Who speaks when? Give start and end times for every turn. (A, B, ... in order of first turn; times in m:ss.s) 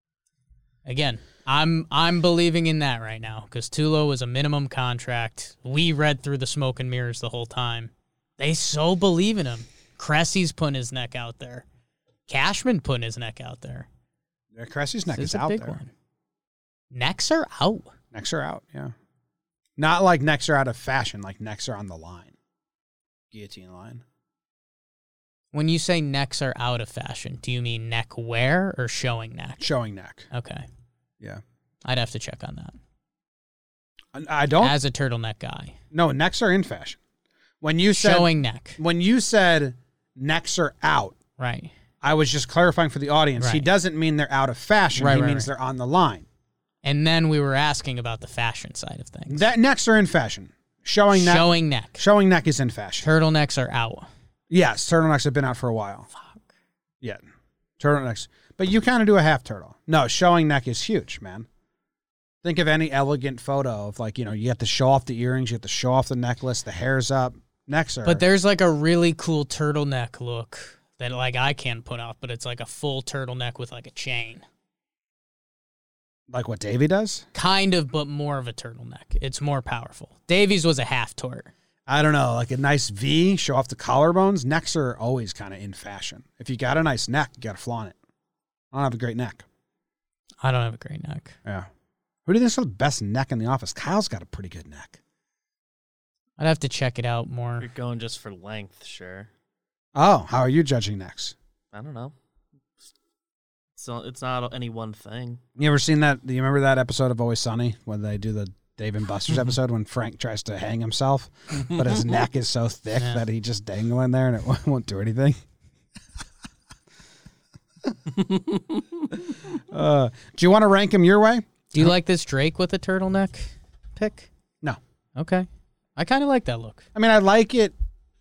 0:00.8-0:11.6 A
0:12.3-0:13.9 A
0:14.5-0:15.8 B
0:15.1-0:15.9 A
0:16.9-0:17.9 A
0:18.1-0:18.9 B
0:19.8-0:22.3 B
0:23.3-0:24.0 B
0:25.5-0:29.7 A
0:29.6-0:30.3 B
0:30.3-0:30.7 A
0:31.8-0:32.8 A
0:34.2-0:34.8 B
0:34.6-0:35.8 A
0:35.9-0:37.0 B
0:37.6-0:41.2 B
0:37.9-0:38.8 A
0:41.4-0:41.7 A
0:42.0-0:46.2 B
0:43.4-0:43.7 A
0:44.9-0:45.5 A
0:46.8-0:49.5 A
0:49.3-0:53.0 B
0:51.1-0:52.0 A
0:53.0-0:54.1 A
0:54.5-0:56.1 B
0:56.1-0:56.5 A
0:57.8-1:01.5 B
1:02.4-1:08.2 B
1:08.0-1:14.4 A
1:16.3-1:17.2 B
1:17.3-1:21.5 A
1:21.9-1:28.0 B
1:28.7-1:29.5 B
1:30.4-1:31.4 A
1:32.2-1:35.0 B
1:36.4-1:37.7 A
1:37.6-1:39.3 C
1:39.9-1:41.3 B
1:41.7-1:42.2 C
1:43.8-1:45.4 C
1:45.6-1:55.4 B
1:53.0-1:53.2 A
1:59.3-2:01.9 B
2:01.7-2:04.3 A
2:05.2-2:06.8 A
2:06.9-2:07.7 B